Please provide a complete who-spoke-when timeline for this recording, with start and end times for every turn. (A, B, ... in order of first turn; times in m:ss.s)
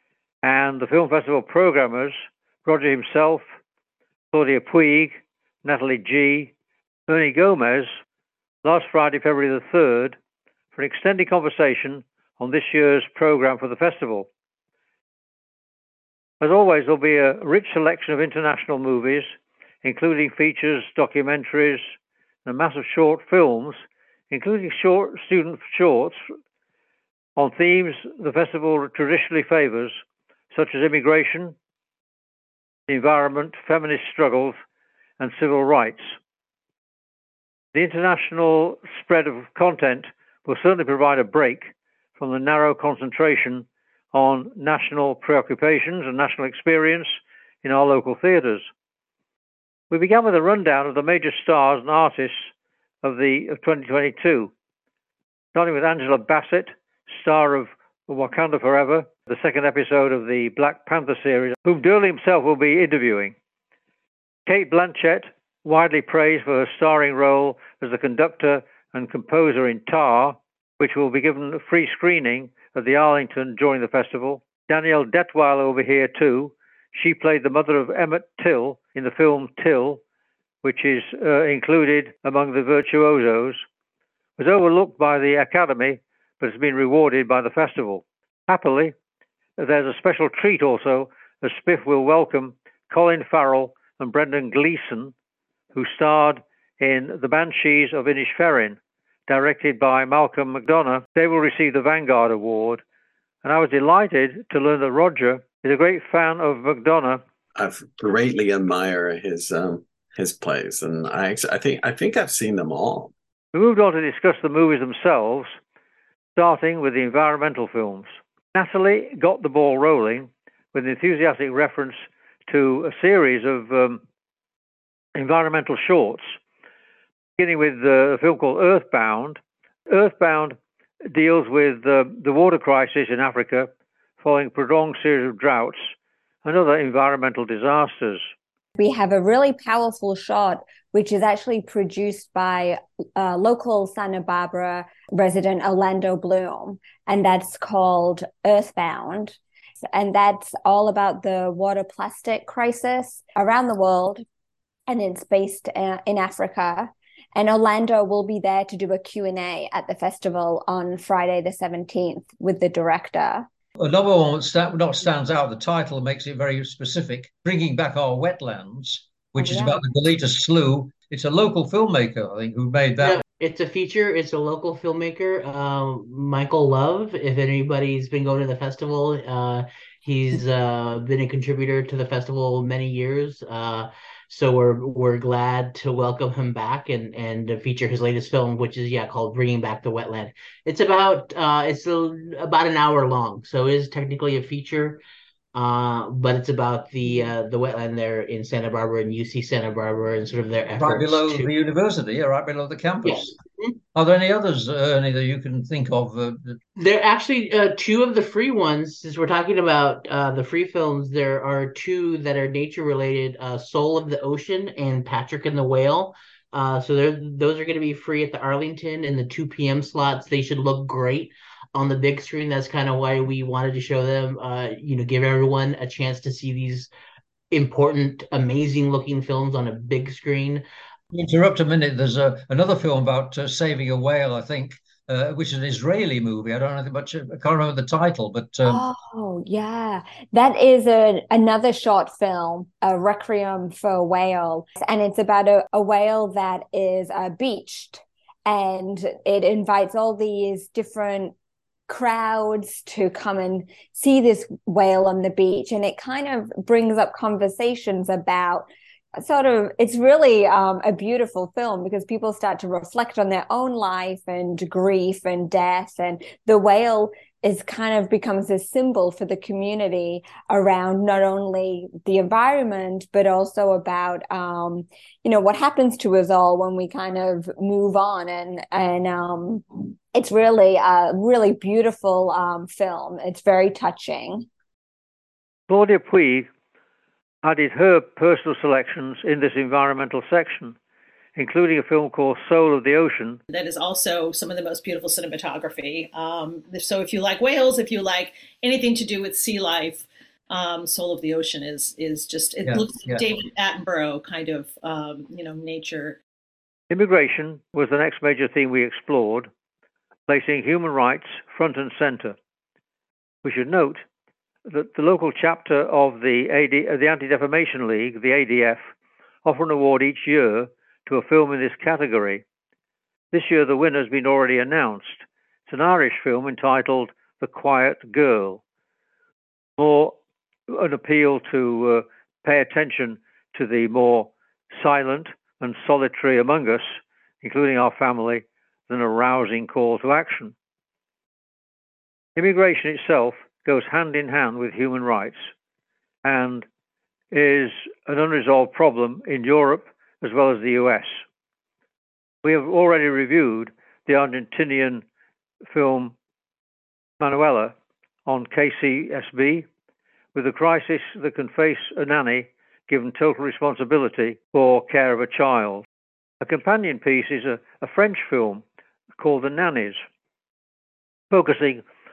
0:00.4-0:03.5 A
0:04.3-0:06.5 A
0:07.1-0:07.9 A
0:08.6-0:10.2 A
0:10.7-0:14.3 A
0:16.4-0:19.3 A
0:19.8-0:21.9 A
0:22.4-0:26.2 A
0:27.4-0:29.9 A
0:30.5-0:31.6 A
0:32.9-0:34.6 A
0:35.2-0:36.2 A
0:37.7-0:48.6 A
0:49.9-0:52.5 A
0:53.0-0:54.5 A
0:55.5-1:03.4 A
1:04.5-1:20.0 A
1:20.6-1:23.6 A
1:24.4-1:28.9 A
1:29.6-1:35.1 A
1:35.7-1:42.8 A
1:43.4-1:47.2 A
1:47.6-1:53.1 B
1:53.5-1:55.5 A
1:56.4-2:04.0 A
2:05.2-2:06.4 A
2:07.4-2:10.6 A
2:11.1-2:15.9 A
2:16.4-2:18.2 A
2:18.8-2:29.4 C
2:29.9-2:34.2 C
2:34.9-2:43.5 C
2:43.8-2:53.2 D
2:49.4-2:49.7 C
2:53.0-3:15.0 E
3:15.5-3:21.5 E
3:20.8-3:21.4 A
3:20.8-3:23.2 D
3:23.0-3:23.8 E
3:24.0-3:26.6 D
3:26.8-3:46.9 E
3:47.5-3:50.6 E
3:51.1-3:58.8 D
3:58.6-4:11.3 C
4:11.9-4:44.5 C
4:45.7-4:46.5 A
4:47.4-4:50.8 A
4:51.4-4:53.4 A
4:53.5-5:06.2 F
5:02.7-5:03.2 D
5:06.9-5:09.5 A
5:10.3-5:12.4 A
5:13.4-5:14.0 A
5:14.7-5:18.8 A
5:19.4-5:22.4 A
5:23.3-5:28.6 A
5:29.8-5:30.2 A
5:30.7-5:40.6 A
5:42.4-5:45.5 A
5:46.2-5:46.7 A
5:47.3-5:51.2 A
5:52.4-5:55.0 A
5:55.6-5:56.1 A
5:57.2-5:59.7 A
6:00.4-6:05.8 A
6:06.4-6:08.6 A
6:09.2-6:10.0 A
6:11.3-6:11.8 A